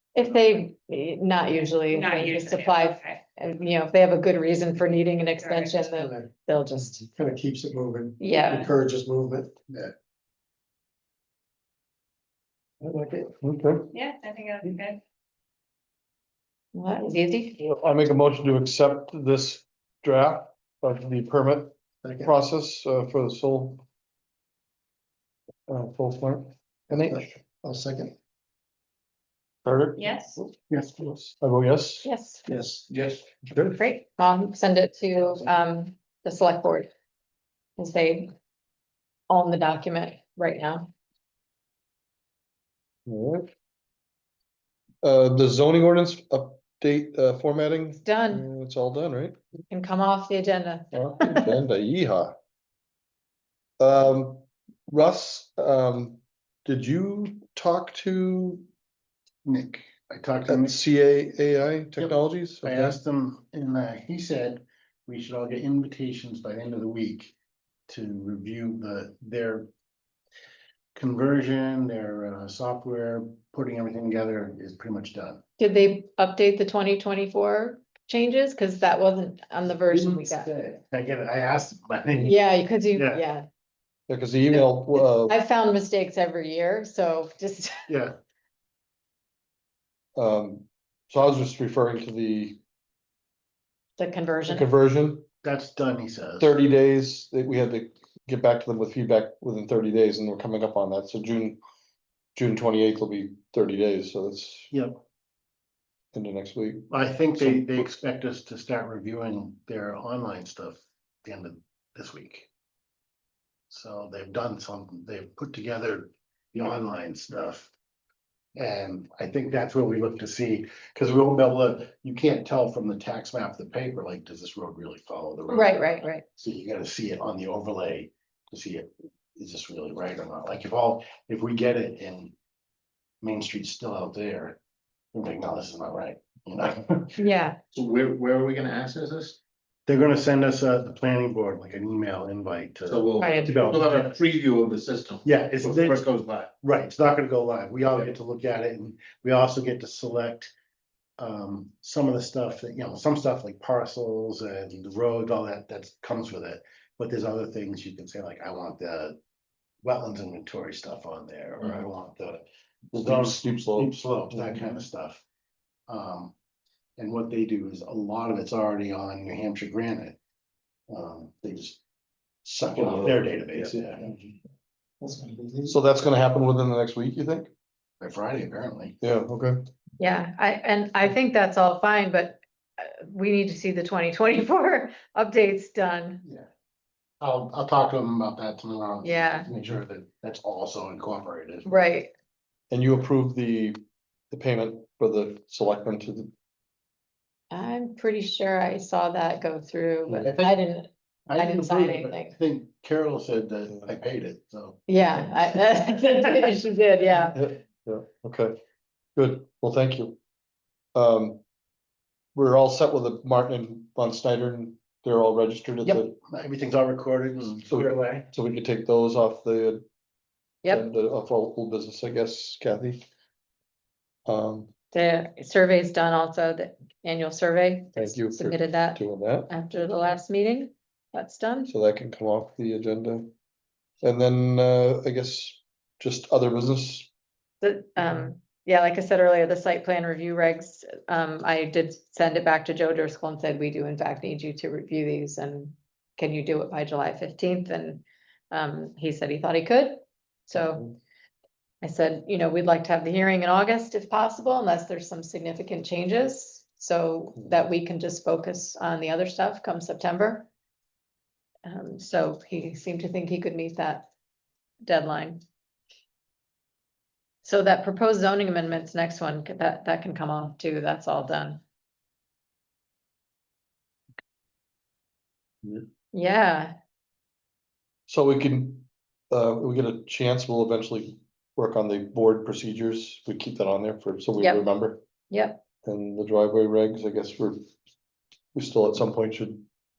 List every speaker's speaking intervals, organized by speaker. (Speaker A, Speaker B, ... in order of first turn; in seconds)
Speaker A: 0.1-7.0, 8.2-8.6, 16.7-17.6, 32.0-32.4, 33.8-36.9, 37.8-38.3, 39.3-40.9, 48.0-48.5, 49.7-51.5, 75.6-80.5, 82.2-83.5, 84.5-87.9, 94.0-94.7, 125.5-126.2, 137.2-137.6, 143.2-143.6, 180.0-186.2, 189.0-189.5, 191.6-192.1, 197.5-202.3, 204.9-207.4, 224.9-231.7, 237.6-250.9, 251.8-260.5, 261.6-264.1, 264.8-265.4, 267.4-271.6, 276.1-276.8, 284.4-284.6, 285.3-285.6
Speaker B: 1.9-3.2, 5.4-5.9, 8.4-8.7, 13.9-15.0, 29.9-30.4
Speaker C: 5.9-6.3, 7.0-9.5, 12.8-13.3, 26.9-28.1, 32.5-33.3, 175.0-175.7
Speaker D: 13.4-13.9, 17.6-23.8, 25.7-27.3, 29.6-32.0, 43.1-43.5, 45.0-49.4, 50.9-52.3, 53.8-58.6, 60.5-63.0, 84.1-85.4, 90.2-92.6, 94.5-95.2, 96.4-101.6, 102.3-104.7, 106.1-107.8, 162.9-164.7, 172.7-173.9, 175.6-177.5, 179.0-179.7, 192.7-193.8, 194.3-196.3, 207.3-208.6, 209.2-210.2, 210.9-211.4, 212.3-216.1, 217.7-219.8, 220.7-223.0, 224.3-224.7, 227.9-229.5, 231.7-233.3, 234.0-237.1, 250.5-250.9, 278.1-285.0, 285.8-287.7, 288.5-289.6
Speaker E: 59.4-60.8, 62.6-67.3, 67.9-69.7, 70.9-75.4, 79.9-82.3, 82.9-83.2, 87.9-88.2, 95.4-96.5, 104.7-105.0, 106.9-112.5, 113.7-117.7, 118.5-132.3, 133.2-134.6, 135.1-137.2, 139.9-144.1, 145.2-146.1, 146.6-150.5, 151.2-159.2, 159.8-165.2, 165.9-166.3, 167.0-170.2, 170.9-171.8, 172.4-174.2, 178.0-179.0, 187.2-191.7, 201.3-204.9, 215.8-218.2
Speaker F: 137.7-139.4, 142.8-146.5